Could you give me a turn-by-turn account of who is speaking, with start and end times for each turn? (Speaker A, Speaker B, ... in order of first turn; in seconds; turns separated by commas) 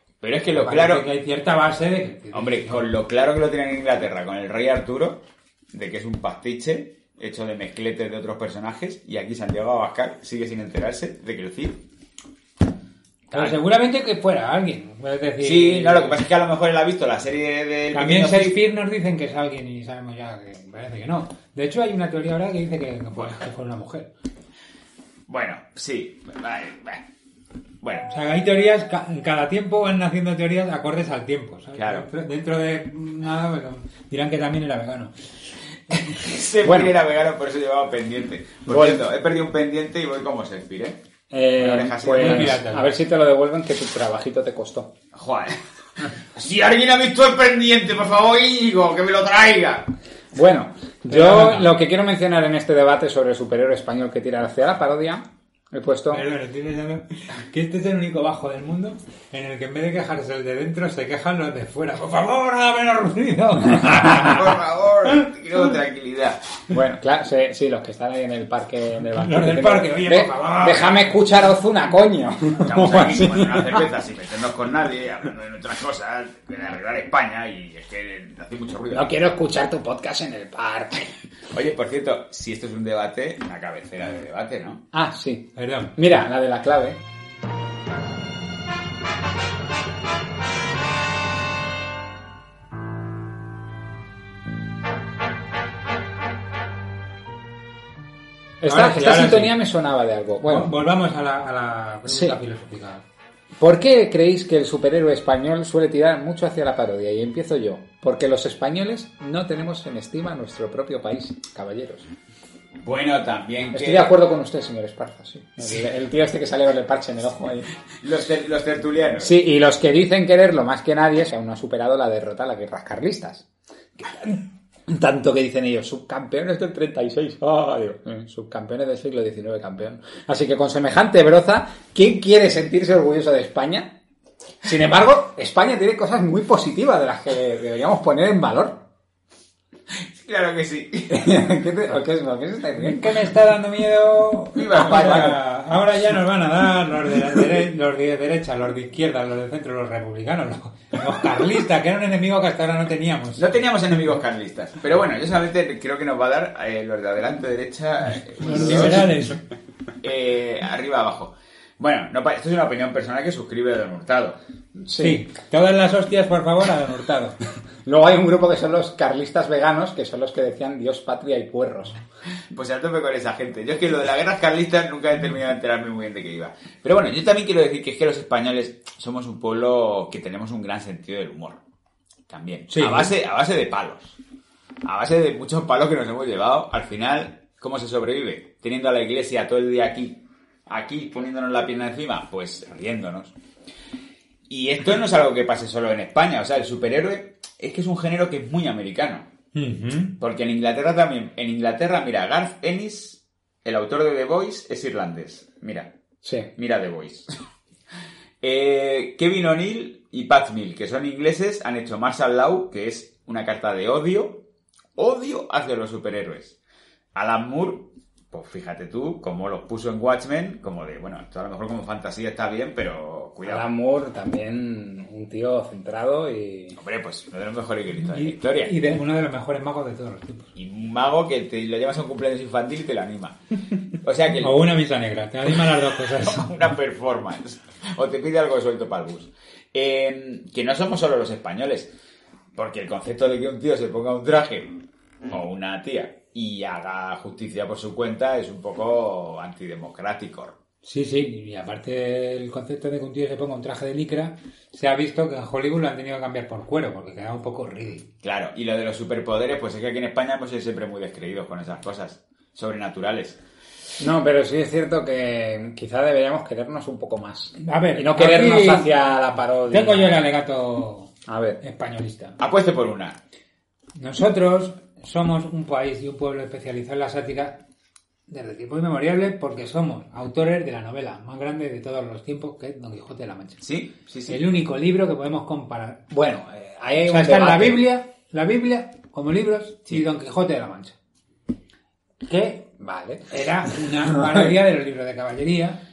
Speaker A: 0.2-1.1, Speaker B: 0.5-2.8, Speaker A: 2.3-5.2, Speaker A: 5.7-11.8, Speaker A: 13.3-13.6, Speaker B: 13.3-16.2, Speaker A: 15.4-18.6, Speaker B: 17.9-24.1, Speaker A: 25.3-27.0, Speaker A: 27.8-28.1, Speaker B: 28.1-35.1, Speaker A: 31.7-32.1, Speaker B: 35.9-36.2, Speaker A: 36.0-41.0, Speaker C: 36.6-36.9, Speaker C: 38.7-39.0, Speaker C: 41.3-44.9, Speaker A: 41.5-42.6, Speaker B: 42.1-42.9, Speaker A: 45.1-45.6, Speaker A: 46.3-49.9, Speaker C: 50.3-56.2, Speaker B: 51.1-51.7, Speaker B: 56.1-64.4, Speaker A: 63.8-66.4, Speaker C: 66.7-73.8, Speaker B: 69.2-71.2, Speaker A: 72.6-79.1, Speaker C: 78.9-81.2, Speaker A: 81.5-84.8, Speaker C: 84.9-87.0, Speaker B: 85.5-85.9, Speaker C: 98.6-100.7, Speaker B: 98.6-99.6, Speaker B: 100.4-103.0, Speaker C: 102.0-102.4, Speaker C: 103.6-112.1, Speaker A: 112.8-114.2, Speaker C: 113.7-117.7, Speaker A: 118.0-119.3, Speaker C: 119.2-123.5, Speaker C: 124.0-134.0, Speaker C: 134.6-138.8, Speaker A: 140.1-141.4, Speaker C: 141.1-143.2, Speaker B: 142.8-153.5, Speaker A: 144.5-145.4, Speaker A: 153.4-159.1, Speaker B: 158.4-159.4, Speaker A: 160.0-164.4, Speaker C: 164.8-165.2, Speaker B: 165.0-167.3, Speaker C: 167.8-172.0, Speaker A: 172.5-181.6, Speaker A: 182.3-184.2, Speaker B: 182.7-183.1, Speaker A: 184.8-193.3, Speaker A: 194.5-199.3, Speaker B: 199.5-200.1, Speaker A: 200.2-205.9, Speaker C: 206.2-206.5, Speaker A: 206.6-207.3, Speaker A: 208.4-214.4, Speaker A: 215.0-216.6, Speaker A: 217.1-223.6, Speaker C: 223.4-226.8, Speaker A: 226.8-228.8, Speaker B: 228.1-230.5, Speaker A: 230.6-233.4, Speaker A: 233.9-234.7, Speaker B: 234.4-236.6, Speaker A: 236.2-241.9, Speaker A: 242.6-244.7, Speaker A: 245.3-250.6, Speaker B: 250.8-258.1, Speaker A: 258.2-263.4, Speaker C: 264.0-270.1, Speaker B: 267.6-268.9, Speaker B: 269.7-272.4, Speaker C: 271.3-271.6, Speaker A: 272.4-273.2, Speaker B: 274.0-277.6, Speaker B: 278.3-283.6, Speaker A: 283.6-284.4, Speaker B: 284.3-286.1, Speaker C: 286.1-287.8, Speaker B: 287.1-290.9, Speaker B: 292.2-292.7, Speaker C: 292.8-293.3, Speaker B: 293.3-295.8, Speaker C: 294.1-294.4